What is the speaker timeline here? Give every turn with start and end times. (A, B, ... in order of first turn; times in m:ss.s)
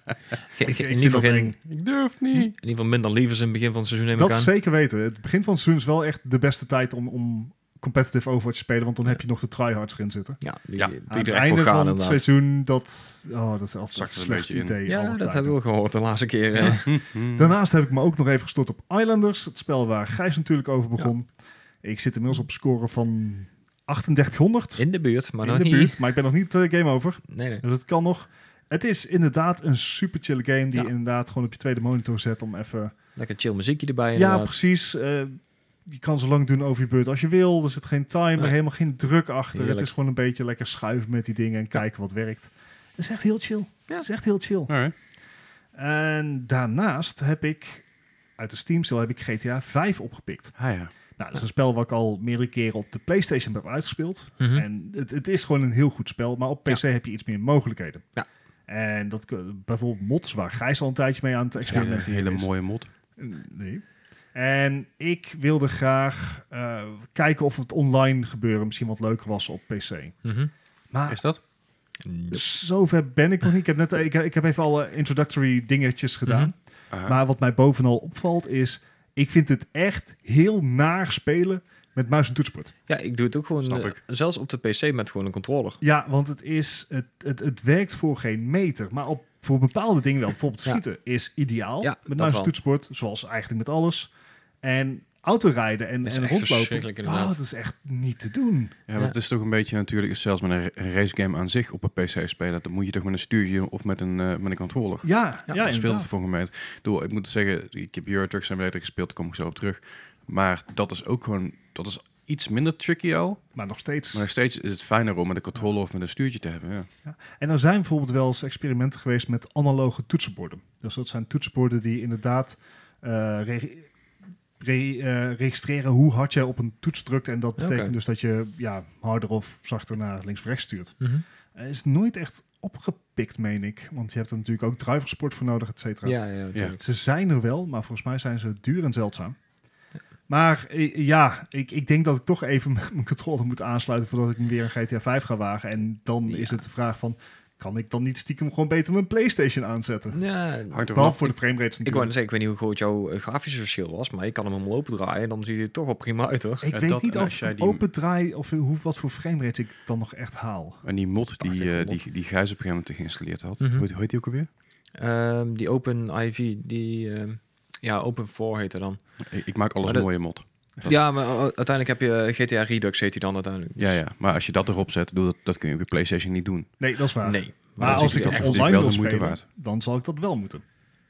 0:00.6-0:01.6 A
0:00.6-0:01.6 B
0:01.7-0:02.5 C
0:02.3-0:04.5 A
0:04.2-0:10.4 B
0:10.4-0:12.2 A
0:11.1-0:15.6 B
0:13.9-0:14.8 C
0:14.9-0:17.0 A
0:16.6-0:17.5 C
0:17.4-0:21.3 B
0:21.8-0:24.8 B
0:24.8-0:26.0 A
0:25.4-0:32.9 B
0:27.3-0:27.6 A
0:33.2-0:34.5 A
0:34.2-0:44.7 B
0:39.5-0:39.9 A
0:44.7-0:45.0 C
0:45.8-0:47.8 B
0:48.4-0:50.6 B
0:50.6-0:50.9 C
0:51.2-0:58.1 B
0:54.4-0:54.7 A
0:58.7-1:02.5 B
1:01.7-1:02.9 C
1:01.7-1:02.0 A
1:03.2-1:10.2 B
1:10.2-1:10.5 A
1:10.9-1:11.2 B
1:11.1-1:11.4 C
1:12.0-1:12.4 A
1:12.3-1:16.5 B
1:16.3-1:16.5 A
1:16.9-1:17.2 C
1:17.1-1:22.7 B
1:22.9-1:25.8 A
1:23.6-1:24.0 C
1:25.8-1:38.8 B
1:31.8-1:32.5 A
1:36.0-1:37.4 A
1:38.9-1:53.4 C
1:45.0-1:46.1 B
1:53.6-1:54.3 B
1:54.1-1:56.9 C
1:57.0-2:03.9 B
2:04.6-2:11.0 B
2:07.6-2:07.9 A
2:11.6-2:16.2 B
2:16.0-2:16.8 A
2:16.8-2:19.4 B
2:20.3-2:30.2 B
2:26.3-2:26.6 A
2:30.1-2:31.2 A
2:30.7-2:31.2 C
2:30.9-2:32.1 B
2:31.8-2:36.7 A
2:36.6-2:40.8 B
2:36.7-2:37.8 C
2:40.8-2:44.5 C
2:41.4-2:42.0 A
2:43.6-2:43.9 A
2:45.0-2:49.0 A
2:49.2-2:50.9 C
2:50.8-2:54.0 A
2:53.8-2:56.7 C
2:56.8-3:00.6 B
2:57.2-2:58.9 A
2:57.8-2:59.4 C